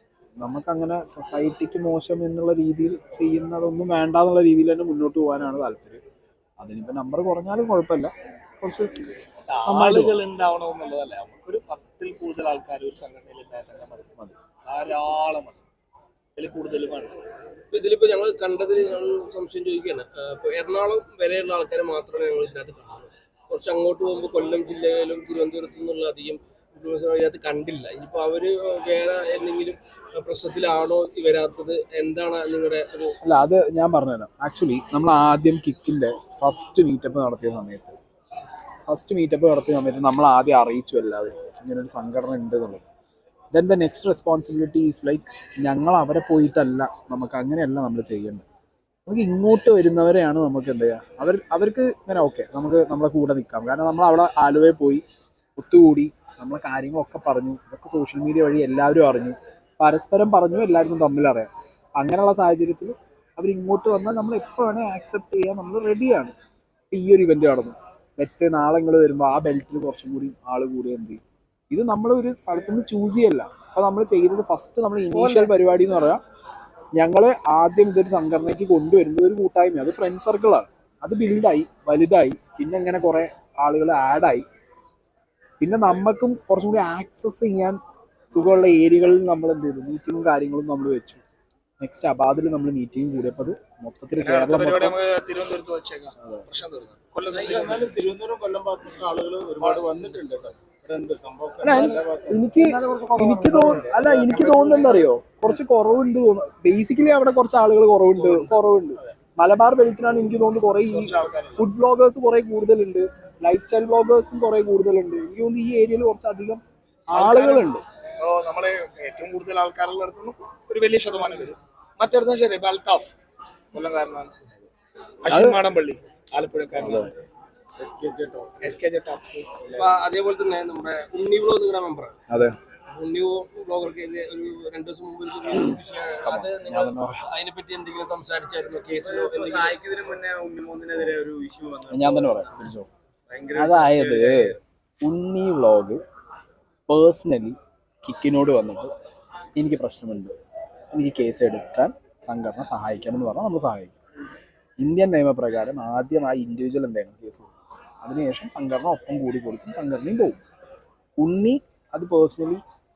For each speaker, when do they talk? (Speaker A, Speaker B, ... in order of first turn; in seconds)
Speaker A: 0.4-6.0, 6.6-9.1, 9.7-10.2, 33.2-38.0, 38.9-42.8, 43.5-48.4, 49.0-55.0, 55.6-66.3, 66.9-76.2, 77.0-84.4, 85.6-87.8, 88.3-91.2, 91.8-95.0, 101.6-117.8, 125.3-125.6, 126.8-127.1, 132.3-132.6, 136.2-137.2, 141.9-142.9, 143.6-146.0, 146.9-148.9, 149.6-150.3, 150.9-153.9, 154.8-160.4, 161.2-162.6
Speaker B: 9.5-14.1, 14.6-15.6, 16.4-17.2, 75.1-75.5, 94.2-98.0, 99.6-100.0, 102.5-103.8, 110.9-111.7, 117.1-123.1, 123.7-124.3, 125.2-127.2, 128.6-129.5
Speaker C: 17.7-33.2, 129.7-132.1, 132.9-139.8
Speaker D: 97.2-102.5, 103.4-104.6, 108.2-108.5, 127.8-128.8, 129.6-130.0, 138.9-142.6, 143.3-144.6